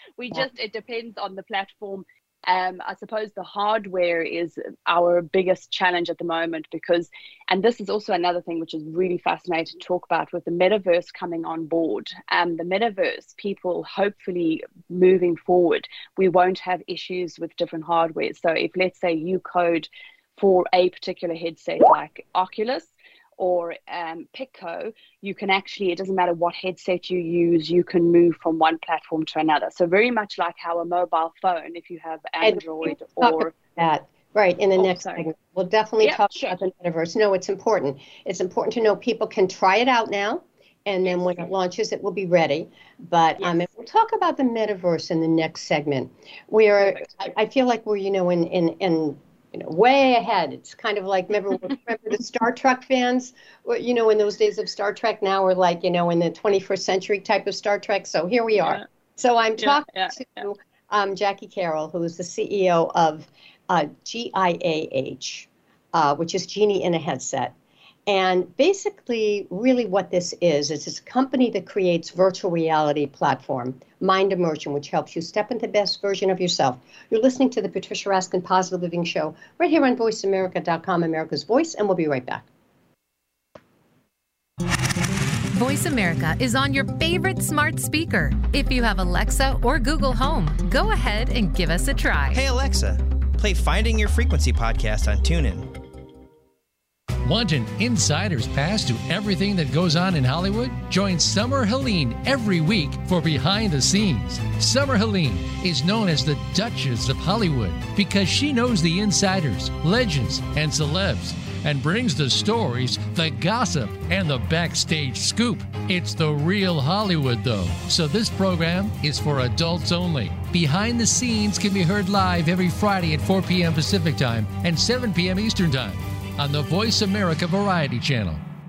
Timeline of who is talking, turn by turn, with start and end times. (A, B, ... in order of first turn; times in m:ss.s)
0:00.2-0:33.5 A
0:32.4-1:07.5 B
0:34.8-0:35.2 A
0:36.0-0:36.6 A
0:59.6-1:00.2 A
1:08.1-1:22.4 B
1:25.5-1:32.4 C
1:32.4-1:35.6 D
1:37.2-2:08.4 E